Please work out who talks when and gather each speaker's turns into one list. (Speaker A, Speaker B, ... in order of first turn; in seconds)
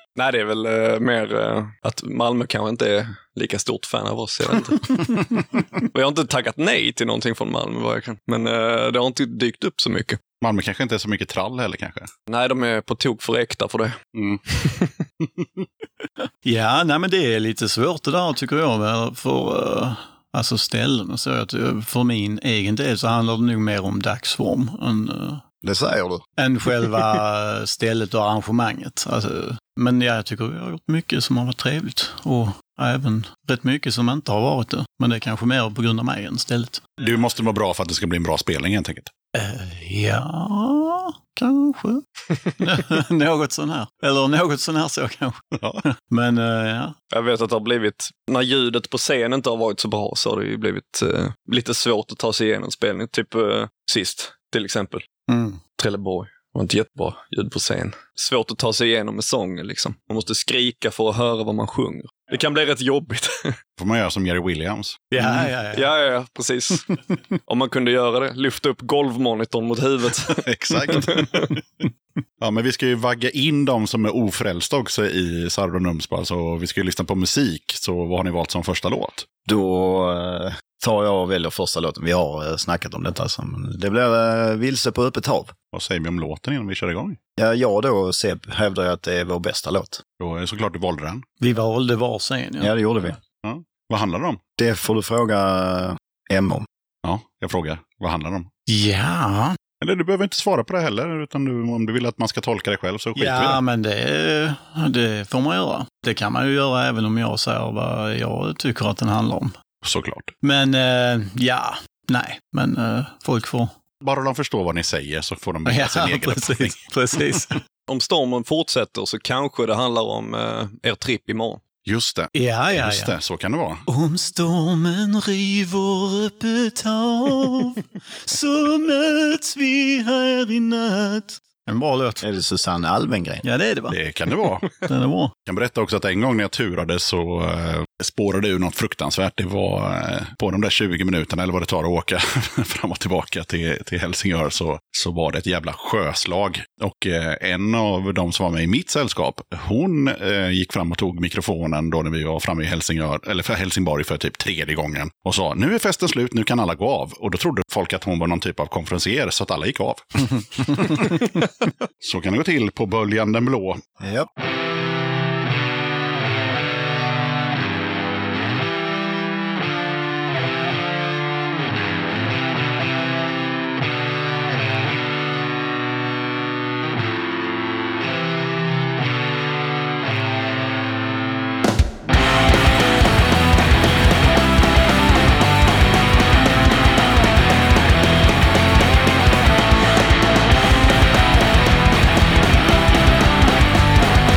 Speaker A: 0.1-10.2, 12.3-14.0, 14.5-14.9, 47.1-55.0, 55.8-63.5, 65.2-66.9, 67.5-71.5, 117.9-121.6
Speaker B: 10.4-12.1, 14.1-14.4, 15.4-15.6, 37.0-39.1, 45.5-45.8, 63.8-65.1, 70.4-71.4, 72.4-79.2, 85.7-87.2, 90.2-91.2, 93.4-94.4, 97.0-98.5, 99.8-103.6, 109.8-110.3, 114.0-116.8, 121.8-123.8, 133.9-134.7, 135.4-161.3, 162.0-163.8
Speaker C: 16.4-25.4, 26.4-36.8, 39.3-42.0, 42.6-46.9, 55.3-55.6, 65.1-65.9, 91.4-92.7, 98.7-99.6, 103.2-109.5, 110.4-113.7, 115.7-117.6, 122.3-123.2, 123.9-132.2, 133.4-134.0, 134.8-135.3
Speaker D: 25.6-26.2, 79.5-85.5, 87.4-90.0, 92.6-93.2, 94.6-96.7, 132.2-133.4, 164.0-164.3